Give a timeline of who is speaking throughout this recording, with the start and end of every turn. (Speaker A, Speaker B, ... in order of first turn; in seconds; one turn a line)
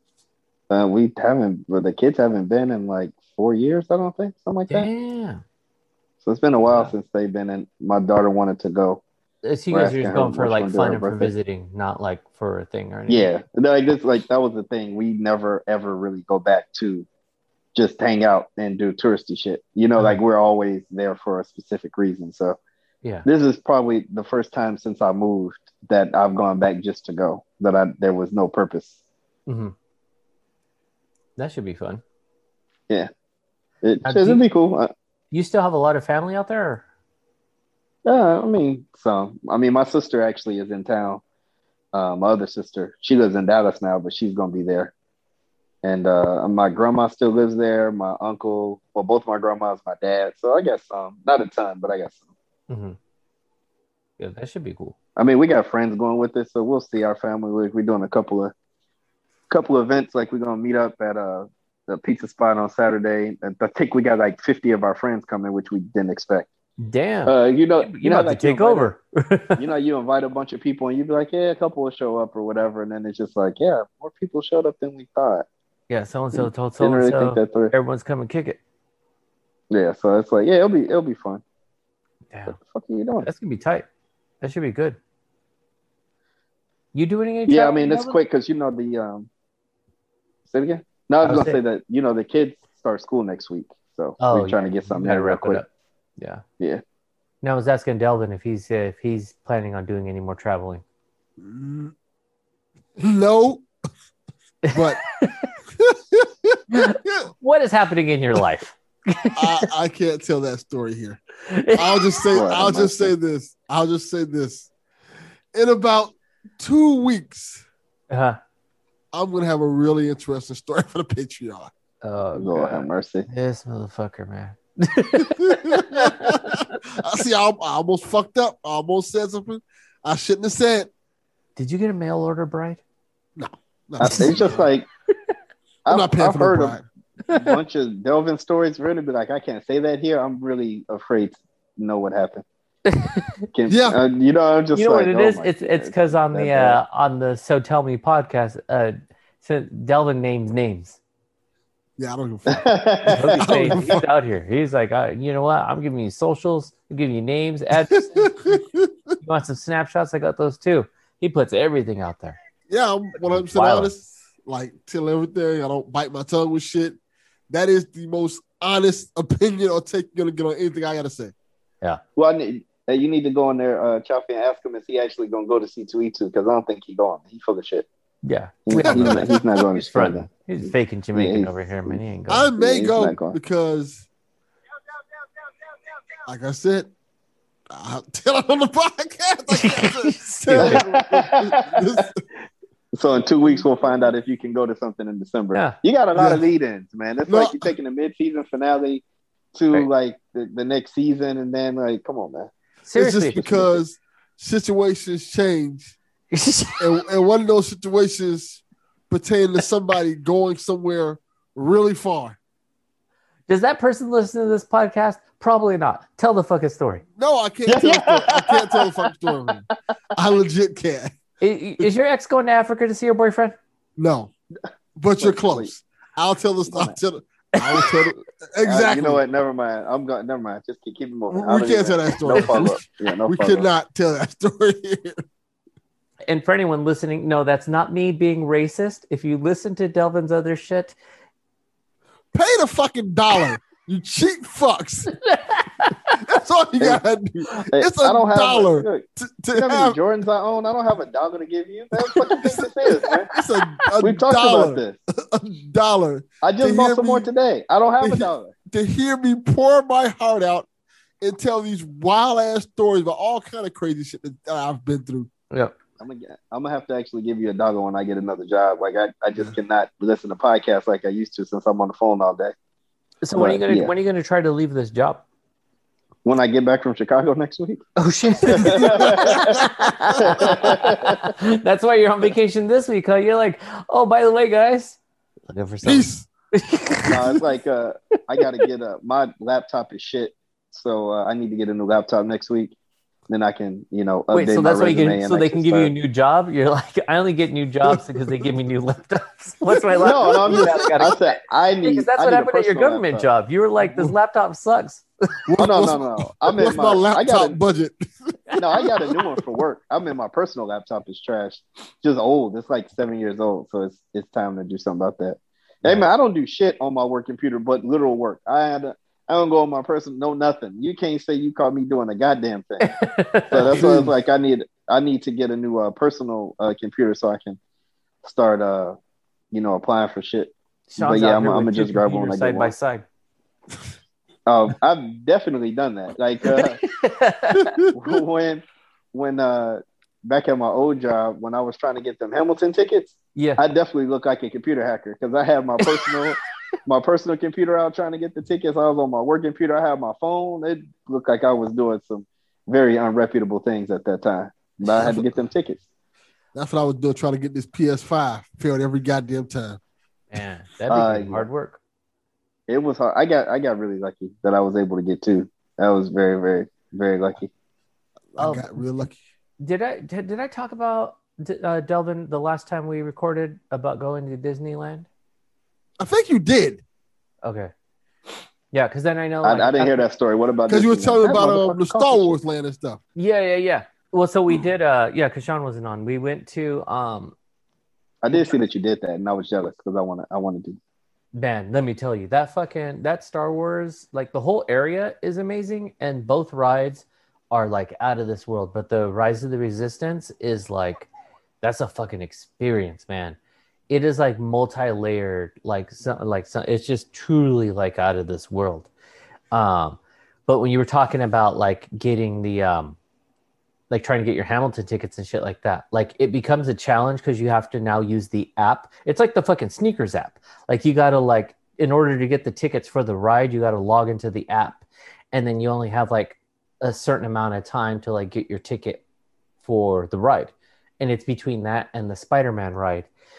Speaker A: 0.7-4.9
Speaker B: 4.7-5.4
Speaker A: 6.2-9.0
Speaker B: 6.7-6.9
Speaker B: 9.4-13.3
Speaker A: 9.7-11.3
Speaker A: 13.1-17.1
Speaker A: 17.7-22.6
Speaker A: 23.2-28.9
Speaker B: 29.5-29.7
Speaker B: 31.4-32.0
Speaker A: 33.8-34.9
Speaker B: 34.0-34.4
Speaker B: 35.3-36.8
Speaker A: 38.0-41.2
Speaker A: 41.9-44.9
Speaker A: 45.8-52.3
Speaker B: 52.7-53.0
Speaker B: 54.2-54.9
Speaker A: 55.2-58.5
Speaker A: 59.5-66.5
Speaker B: 66.8-69.6
Speaker A: 67.3-68.9
Speaker A: 69.6-75.5
Speaker B: 75.9-78.6
Speaker A: 76.3-77.7
Speaker A: 79.7-81.4
Speaker B: 82.3-82.5
Speaker A: 82.5-83.3
Speaker B: 83.2-83.8
Speaker B: 84.4-85.0
Speaker B: 86.9-88.2
Speaker A: 87.5-89.3
Speaker A: 90.5-95.6
Speaker B: 91.2-91.6
Speaker B: 94.2-95.7
Speaker B: 97.4-100.8
Speaker C: 101.4-101.9
Speaker C: 103.0-103.6
Speaker B: 104.6-105.5
Speaker C: 104.7-105.0
Speaker C: 105.8-107.3
Speaker B: 106.7-109.7
Speaker C: 109.3-111.2
Speaker B: 111.4-112.3
Speaker C: 111.7-114.7
Speaker A: 112.3-113.1
Speaker C: 115.5-117.6
Speaker B: 118.1-118.4
Speaker C: 119.1-121.7
Speaker B: 122.0-126.7
Speaker A: 122.3-123.2
Speaker C: 125.2-130.9
Speaker B: 131.6-132.8
Speaker C: 133.3-134.7
Speaker A: 134.0-134.9
Speaker B: 134.0-134.3
Speaker A: 135.8-142.4
Speaker C: 135.9-136.8
Speaker B: 142.8-143.3
Speaker A: 143.5-146.8
Speaker C: 143.7-144.0
Speaker B: 144.7-151.0
Speaker C: 152.0-154.1
Speaker A: 152.5-153.9
Speaker B: 153.1-158.6
Speaker C: 157.9-159.2
Speaker B: 159.2-162.4
Speaker C: 162.7-167.0
Speaker B: 163.2-163.9
Speaker C: 167.5-171.3
Speaker A: 172.2-177.8
Speaker B: 178.2-182.5
Speaker A: 178.7-180.3
Speaker C: 178.8-179.4
Speaker A: 181.1-182.0
Speaker C: 182.3-184.1
Speaker A: 182.6-183.3
Speaker C: 186.2-186.9
Speaker C: 187.7-192.2
Speaker B: 189.5-190.8
Speaker A: 190.6-192.0
Speaker A: 192.9-199.0
Speaker C: 196.1-196.4
Speaker C: 197.3-197.7
Speaker A: 199.5-202.5
Speaker B: 202.8-203.7
Speaker C: 202.9-205.9
Speaker B: 206.3-206.8
Speaker C: 206.8-212.4
Speaker B: 213.5-217.0
Speaker C: 217.2-221.2
Speaker A: 217.7-219.1
Speaker B: 221.4-223.6
Speaker C: 224.0-224.3
Speaker C: 224.9-229.2
Speaker A: 225.2-225.7
Speaker A: 226.7-227.0
Speaker B: 227.6-227.9
Speaker A: 228.6-233.7
Speaker C: 231.3-235.2
Speaker B: 232.3-232.7
Speaker B: 236.3-240.9
Speaker C: 242.3-245.1
Speaker B: 245.2-246.2
Speaker C: 246.2-250.0
Speaker A: 247.7-253.3
Speaker C: 252.1-252.7
Speaker C: 253.3-257.3
Speaker A: 254.0-255.0
Speaker A: 256.4-258.5
Speaker C: 258.0-260.7
Speaker C: 261.2-265.3
Speaker A: 266.0-272.5
Speaker B: 273.2-275.2
Speaker A: 273.3-273.9
Speaker A: 276.2-277.9
Speaker B: 277.9-287.3
Speaker A: 278.4-279.6
Speaker C: 278.6-280.7
Speaker A: 280.2-281.3
Speaker C: 285.8-286.3
Speaker A: 287.1-292.7
Speaker A: 293.3-295.9
Speaker B: 294.3-305.0
Speaker C: 297.8-298.5
Speaker C: 299.7-301.1
Speaker A: 300.0-303.2
Speaker C: 303.8-304.1
Speaker C: 305.5-309.2
Speaker A: 305.6-307.6
Speaker A: 308.6-322.9
Speaker B: 322.8-323.9
Speaker A: 323.5-327.6
Speaker C: 323.6-324.1
Speaker A: 328.2-328.9
Speaker A: 329.5-332.7
Speaker B: 330.9-333.0
Speaker A: 334.5-336.8
Speaker B: 336.4-337.8
Speaker C: 337.5-338.2
Speaker A: 337.9-355.8
Speaker B: 343.3-343.6
Speaker B: 345.8-346.1
Speaker C: 354.9-355.4
Speaker C: 356.5-359.8
Speaker B: 360.3-361.8
Speaker A: 360.9-361.5
Speaker A: 362.7-367.5
Speaker C: 368.3-369.2
Speaker B: 368.4-369.1
Speaker B: 369.6-375.1
Speaker C: 376.0-376.8
Speaker B: 377.4-377.7
Speaker B: 378.7-380.0
Speaker A: 379.4-382.3
Speaker C: 380.7-383.0
Speaker B: 383.1-387.3
Speaker A: 388.2-390.8
Speaker B: 388.3-388.6
Speaker B: 391.3-401.1
Speaker B: 401.6-403.4
Speaker B: 403.9-408.9
Speaker B: 409.5-413.0
Speaker B: 413.9-429.0
Speaker B: 429.6-433.1